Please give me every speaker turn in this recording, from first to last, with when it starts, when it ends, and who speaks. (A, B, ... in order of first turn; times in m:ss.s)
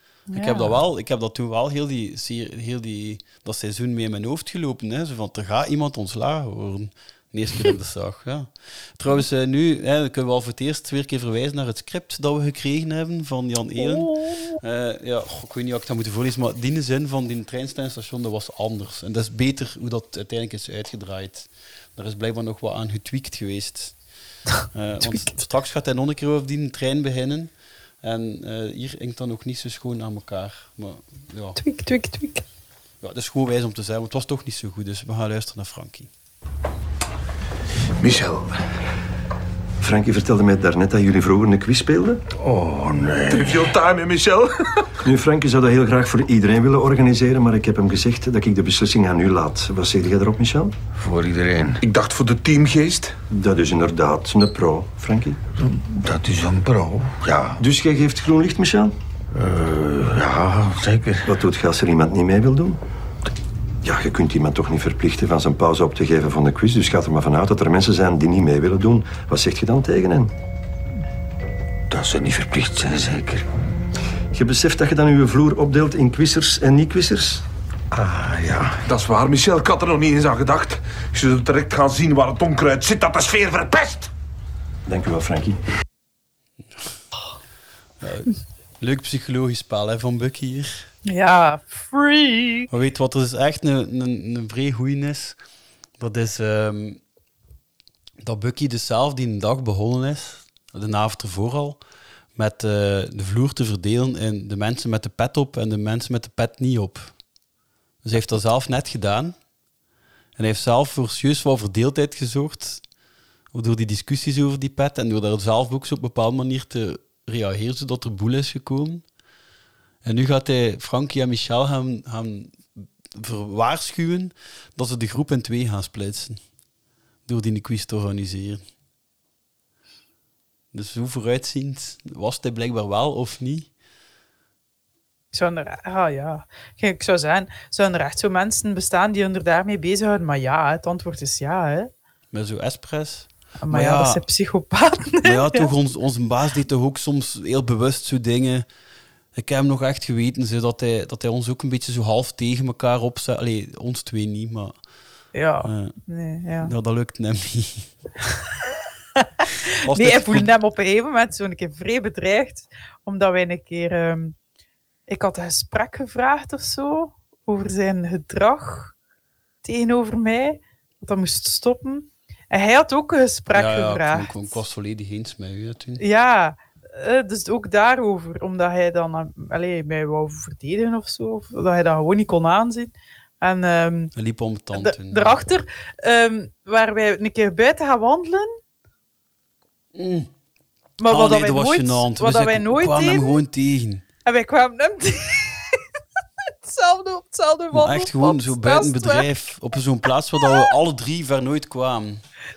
0:00.3-0:00.8 A
0:00.3-0:24.0 B
0:13.8-0:14.6 A
0:24.7-0:27.5 B
0:28.0-0:31.6 B
0:31.6-0:32.4 A
0:33.0-0:36.1 B
0:38.0-0:38.4 C
0:39.8-0:42.2 D
0:42.4-0:43.6 E
0:43.3-0:44.9 C
0:45.0-0:50.7 D
0:51.0-0:51.8 E
0:51.8-0:53.2 C
0:53.3-0:55.4 D
0:55.6-0:57.6 E
0:57.6-0:58.9 D
0:59.3-1:01.3 E
1:01.2-1:02.8 D
1:03.8-1:10.3 D
1:11.9-1:13.4 E
1:14.3-1:17.4 D
1:18.0-1:18.7 E
1:18.8-1:24.1 C
1:24.9-1:25.6 D
1:28.0-1:30.9 B
1:31.0-1:32.7 A
1:32.7-1:35.4 B
1:36.0-1:37.0 B
1:38.2-1:41.8 B
1:42.4-1:47.2 B
1:48.0-1:49.4 B
1:50.4-1:52.8 B
1:53.5-1:59.0 B
2:00.0-2:06.4 B
2:07.3-2:08.6 B
2:10.7-2:13.7 B
2:15.3-2:21.9 A
2:22.3-2:24.2 B
2:23.6-2:25.7 A
2:25.2-2:28.7 B
2:29.3-2:34.8 B
2:35.3-2:36.7 A
2:35.6-2:36.0 B
2:36.6-2:38.4 B
2:39.4-2:44.4 A
2:39.8-2:40.5 B
2:45.1-2:49.0 A
2:49.6-2:54.6 A
2:53.5-2:56.0 B
2:56.0-3:04.1 A
3:04.2-3:05.4 B
3:04.8-3:08.6 A
3:10.0-3:10.3 B
3:11.0-3:13.4 A
3:11.1-3:14.0 B
3:14.3-3:15.8 A
3:16.6-3:19.3 A
3:17.7-3:22.2 B